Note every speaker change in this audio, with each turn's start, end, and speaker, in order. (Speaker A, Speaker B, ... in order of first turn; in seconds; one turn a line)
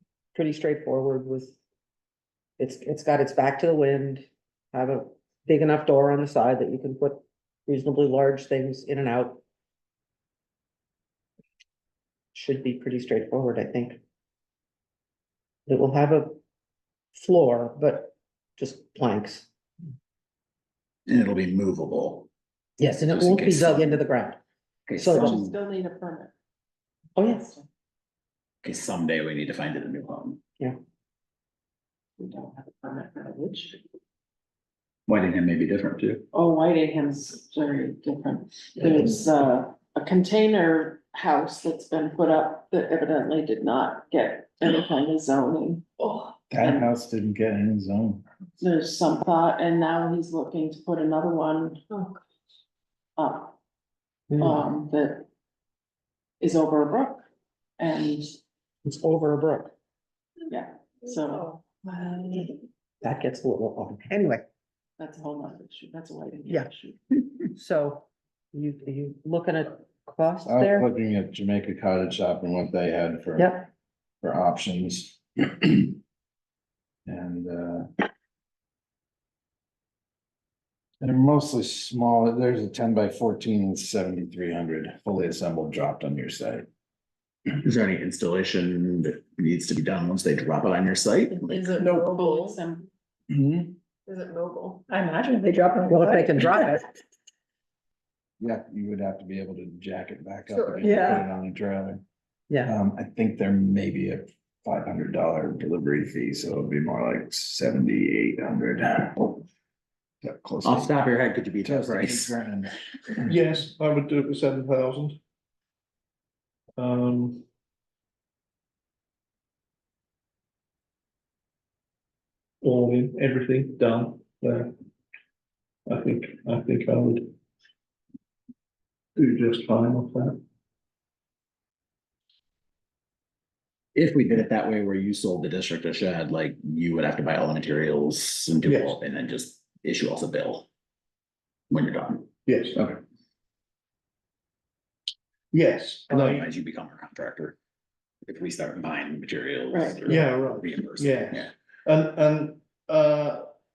Speaker A: 0.3-1.6
Speaker A: 2.6-9.4
Speaker A: 12.3-14.0
Speaker A: 15.7-16.4
Speaker A: 17.2-19.5
Speaker B: 21.1-22.3
Speaker A: 22.8-24.4
Speaker B: 23.1-24.1
Speaker B: 24.9-25.6
Speaker A: 25.0-25.4
Speaker C: 25.1-26.3
Speaker A: 27.2-27.5
Speaker C: 27.2-27.6
Speaker B: 28.6-30.4
Speaker C: 32.2-33.8
Speaker B: 35.1-36.2
Speaker C: 36.3-45.9
Speaker D: 46.0-46.4
Speaker E: 46.5-48.2
Speaker C: 46.6-46.9
Speaker C: 48.6-51.8
Speaker C: 53.2-53.5
Speaker A: 54.3-54.6
Speaker C: 54.4-55.3
Speaker C: 56.4-57.3
Speaker C: 57.8-58.3
Speaker A: 58.9-59.7
Speaker C: 60.5-61.6
Speaker A: 63.0-64.4
Speaker C: 65.0-67.0
Speaker A: 67.5-70.9
Speaker E: 70.5-73.5
Speaker A: 73.4-73.7
Speaker E: 74.2-76.0
Speaker E: 77.1-77.9
Speaker E: 81.0-86.7
Speaker B: 87.6-91.8
Speaker D: 91.5-92.6
Speaker C: 91.5-92.9
Speaker E: 93.3-93.7
Speaker D: 94.1-96.8
Speaker A: 95.9-96.8
Speaker E: 98.4-102.0
Speaker D: 100.5-101.2
Speaker A: 102.5-102.7
Speaker E: 102.7-109.5
Speaker E: 110.2-110.9
Speaker B: 110.6-112.4
Speaker E: 111.6-112.7
Speaker F: 113.3-115.2
Speaker F: 116.8-117.5
Speaker F: 122.6-124.7
Speaker F: 125.9-127.3
Speaker F: 129.2-130.4
Speaker B: 133.9-140.7
Speaker F: 138.6-139.0
Speaker B: 141.7-143.0
Speaker F: 142.5-142.8
Speaker F: 145.5-146.5
Speaker B: 146.1-147.6
Speaker B: 148.3-151.5
Speaker C: 149.7-150.0
Speaker F: 150.1-153.5